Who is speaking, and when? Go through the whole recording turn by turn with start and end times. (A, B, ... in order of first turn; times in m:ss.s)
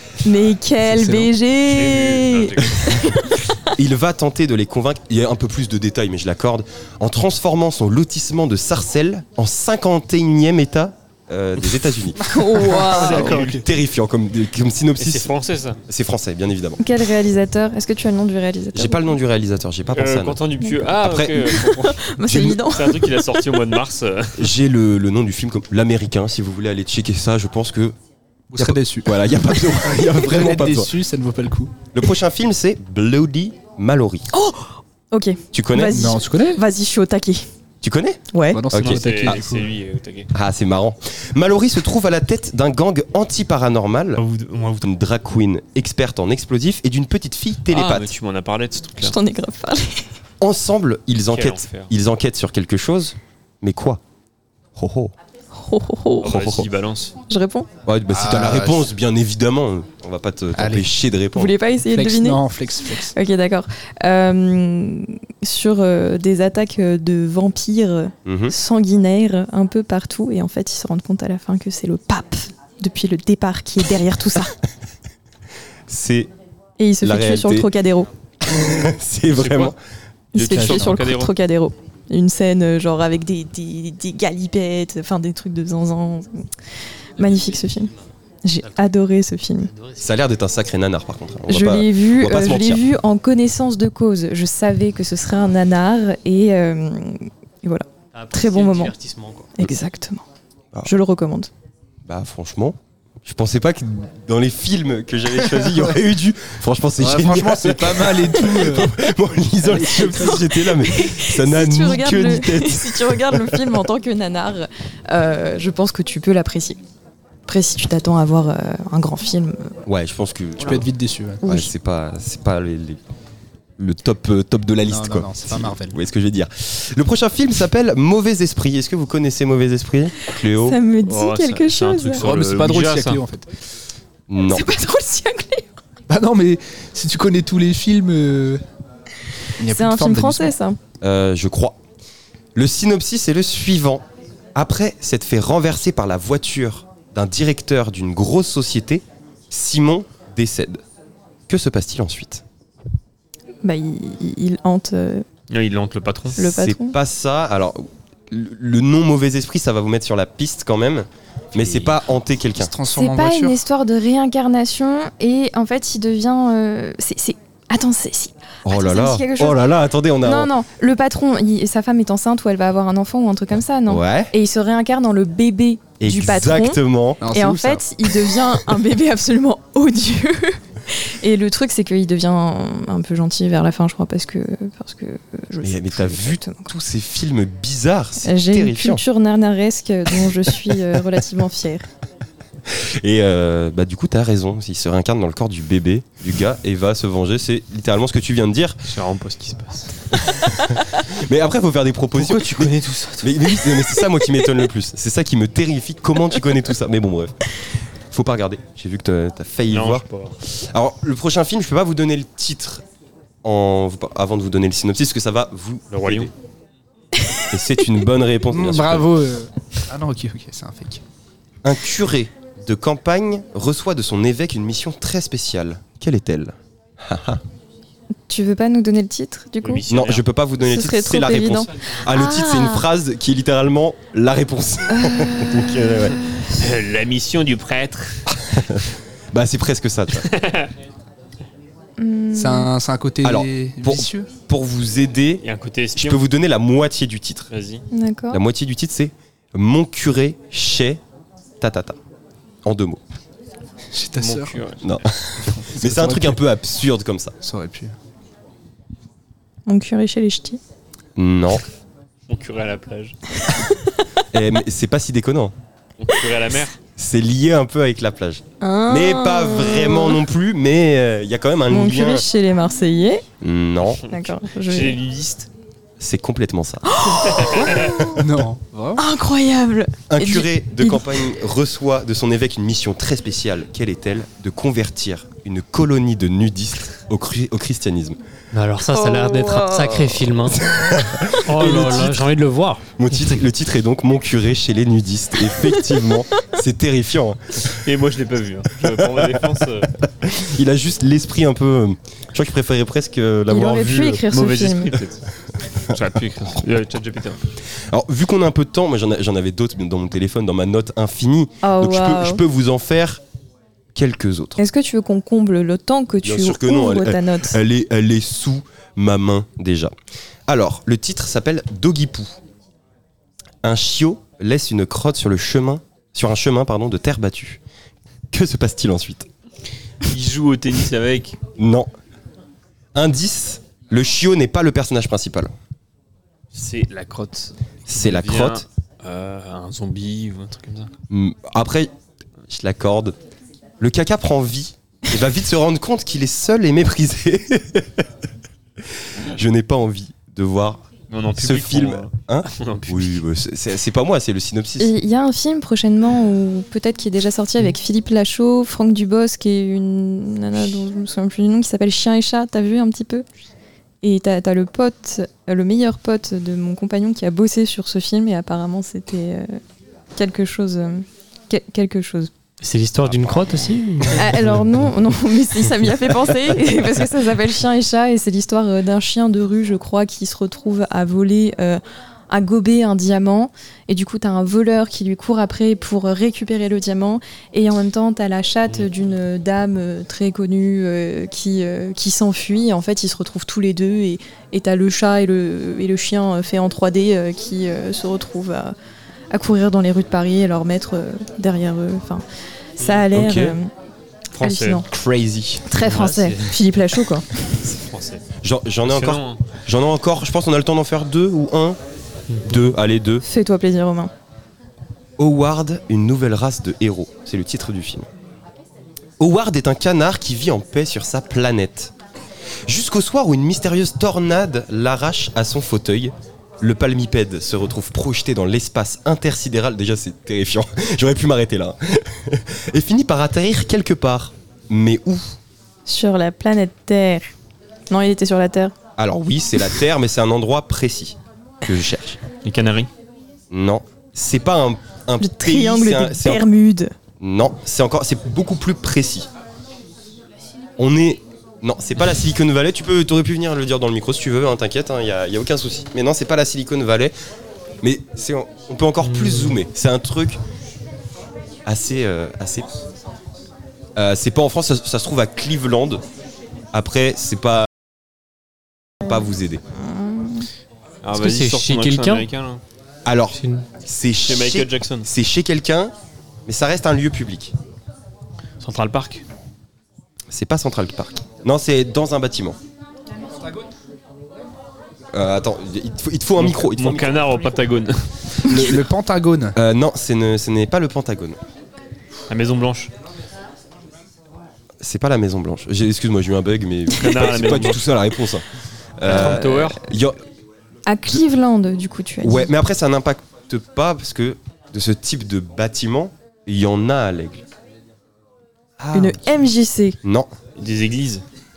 0:00.2-0:03.6 A
0:00.9-0:01.3 B
0:01.7-0:03.1 C
0:03.8-0:12.3 D
0:12.2-0:13.6 B
0:12.2-0:13.4 A
0:12.9-0:13.6 C
0:13.0-0:15.3 D
0:15.0-0:15.8 C
0:15.9-0:16.8 D
0:16.8-0:19.1 A
0:18.7-0:21.5 D
0:19.9-0:24.5 C
0:21.4-0:23.6 A
0:22.2-0:22.6 D
0:24.4-0:28.0 D
0:28.5-0:31.8 B
0:28.6-0:30.9 D
0:31.9-0:34.3 D
0:34.3-0:37.5 A
0:35.5-0:36.2 D
0:35.9-0:36.6 B
0:37.8-0:39.4 D
0:38.3-0:38.6 A
0:38.5-0:39.7 B
0:38.8-0:40.3 C
0:40.3-0:44.2 D
0:44.2-0:44.9 C
0:44.8-0:48.1 D
0:47.7-0:49.2 C
0:49.0-0:50.1 A
0:50.4-0:54.0 D
0:51.3-0:51.9 C
0:54.8-0:55.1 D
0:55.5-0:56.3 A
0:56.2-0:57.2 C
0:56.2-0:56.7 D
0:57.3-0:57.7 A
0:57.9-1:01.6 D
0:58.1-0:58.9 B
1:00.6-1:00.9 B
1:01.4-1:02.4 A
1:01.9-1:03.1 B
1:03.0-1:14.6 A
1:08.2-1:08.6 D
1:15.9-1:16.3 D
1:16.8-1:18.1 A
1:17.0-1:17.7 D
1:18.4-1:19.8 D
1:19.3-1:19.7 C
1:20.3-1:26.3 A
1:20.4-1:21.3 C
1:20.4-1:21.0 B
1:27.2-1:27.9 A
1:27.2-1:27.9 E
1:28.4-1:29.7 A
1:29.7-1:30.0 E
1:30.0-1:32.8 D
1:31.5-1:38.9 A
1:38.1-1:39.5 E
1:39.6-1:40.2 A
1:40.8-1:41.5 A
1:42.0-1:53.8 D
1:47.0-1:49.0 B
1:49.6-1:50.4 B
1:50.0-1:56.8 A
1:57.5-1:59.8 A
1:59.9-2:00.9 D
2:00.6-2:01.4 B
2:01.4-2:01.7 A
2:01.4-2:03.0 D
2:03.8-2:10.8 D
2:04.8-2:06.0 B
2:10.4-2:12.2 A
2:11.0-2:13.2 C
2:12.2-2:13.5 B
2:14.3-2:14.7 D
2:14.4-2:15.7 A
2:16.1-2:18.6 B
2:19.6-2:20.6 B
2:19.7-2:20.8 A
2:21.0-2:21.8 D
2:22.6-2:30.8 D
2:31.5-2:32.4 D
2:33.6-2:35.3 A
2:35.5-2:36.4 C
2:36.4-2:37.0 A
2:36.4-2:42.7 D
2:41.6-2:41.9 C
2:42.6-2:43.6 B
2:42.9-2:49.6 A
2:48.7-2:50.5 D
2:50.2-2:56.8 A
2:53.9-2:54.3 D
2:56.0-2:57.2 D
2:57.2-2:57.8 B
2:57.3-3:06.7 A
3:05.6-3:09.0 D
3:08.2-3:11.9 A
3:12.7-3:18.8 D
3:18.9-3:20.0 C
3:20.1-3:27.5 D
3:28.1-3:32.8 D
3:29.7-3:30.4 C
3:33.4-3:36.3 D
3:35.9-3:36.3 C
3:37.5-3:39.1 D
3:38.5-3:41.0 B
3:41.6-3:47.4 D
3:48.3-3:49.8 A
3:49.6-3:50.3 C
3:49.9-3:56.2 D
3:50.6-3:52.9 A
3:54.9-3:55.6 A
3:56.6-3:58.4 C
3:58.4-4:00.3 D
4:00.2-4:00.7 C
4:02.0-4:02.7 A
4:02.3-4:04.3 B
4:03.2-4:05.4 D
4:05.4-4:06.2 C
4:06.0-4:07.5 D
4:07.5-4:07.8 C
4:07.9-4:08.4 A
4:08.3-4:11.0 D
4:11.6-4:12.0 D
4:12.6-4:13.0 D
4:13.9-4:14.6 B
4:14.2-4:15.0 C
4:14.8-4:17.3 D
4:15.4-4:16.4 B
4:17.4-4:18.0 B
4:19.7-4:20.6 A
4:21.2-4:21.6 D
4:22.3-4:23.2 C
4:24.3-4:25.5 D
4:26.0-4:26.8 C
4:27.0-4:32.2 D
4:28.6-4:30.2 A
4:31.7-4:33.2 A
4:33.4-4:34.1 D
4:34.0-4:35.5 C
4:34.1-4:35.0 A
4:36.0-4:38.0 D
4:36.9-4:38.2 A
4:37.2-4:37.8 C
4:38.2-4:39.0 B
4:39.0-4:41.3 A
4:40.1-4:48.2 D
4:48.5-4:50.6 E
4:48.9-4:50.1 A
4:50.5-4:52.3 D
4:51.4-4:53.3 E
4:53.0-4:57.7 D
4:57.7-5:00.0 C
4:58.8-4:59.3 D
5:00.0-5:04.2 D
5:03.5-5:05.0 A
5:04.3-5:05.2 C
5:05.8-5:07.5 C
5:07.9-5:13.2 D
5:11.6-5:12.4 A
5:14.0-5:14.6 D
5:14.6-5:17.6 A
5:16.2-5:19.9 D
5:20.5-5:22.4 D
5:23.6-5:27.6 D
5:28.3-5:29.3 D
5:30.0-5:31.4 C
5:31.6-5:31.9 D
5:32.9-5:35.5 D
5:36.5-5:40.9 C
5:37.9-5:38.7 D
5:41.1-5:41.9 D
5:42.5-5:43.2 D
5:43.8-5:48.1 D
5:49.0-5:50.8 D
5:51.1-5:53.2 C
5:51.4-5:55.0 D
5:54.8-6:03.2 A
6:04.0-6:09.6 A
6:10.2-6:12.3 A
6:12.6-6:14.5 E
6:14.2-6:38.7 A
6:39.3-6:42.2 A
6:42.8-6:43.7 A
6:42.8-6:43.0 C
6:43.1-6:43.6 D
6:44.3-6:44.8 C
6:44.4-6:44.8 A
6:44.9-6:45.7 D
6:45.7-6:47.7 A
6:45.8-6:46.5 C
6:47.6-6:48.2 C
6:48.4-6:51.8 D
6:48.8-6:49.4 C
6:52.4-6:53.2 D
6:53.2-6:54.1 A
6:55.2-6:58.1 D
6:59.2-7:01.9 D
7:02.7-7:15.4 D
7:15.9-7:17.3 A
7:17.9-7:18.7 A
7:19.0-7:22.2 D
7:22.4-7:22.9 C
7:23.5-7:26.5 D
7:25.2-7:26.9 A
7:27.2-7:29.3 D
7:30.8-7:37.1 D
7:37.8-7:40.4 D
7:39.1-7:39.6 E
7:41.6-7:42.7 D
7:44.0-7:46.0 D
7:46.7-7:47.7 D
7:49.0-7:49.6 D
7:49.8-7:50.5 A
7:51.0-7:52.6 C
7:51.1-7:52.3 E
7:53.0-7:55.9 D
7:53.4-7:53.7 E
7:54.2-7:55.1 C
7:56.5-7:57.6 D
7:58.6-7:59.2 C
8:00.3-8:02.6 D
8:05.1-8:07.4 D
8:06.4-8:08.0 C
8:08.5-8:09.6 B
8:08.5-8:08.9 D
8:09.6-8:11.4 D
8:12.3-8:12.9 C
8:14.8-8:18.4 D
8:16.9-8:17.8 C
8:19.0-8:20.2 D
8:19.0-8:19.8 C
8:20.9-8:22.5 A
8:22.2-8:27.4 D
8:28.8-8:29.2 D
8:28.9-8:30.0 A
8:30.0-8:30.3 D
8:30.6-8:31.2 C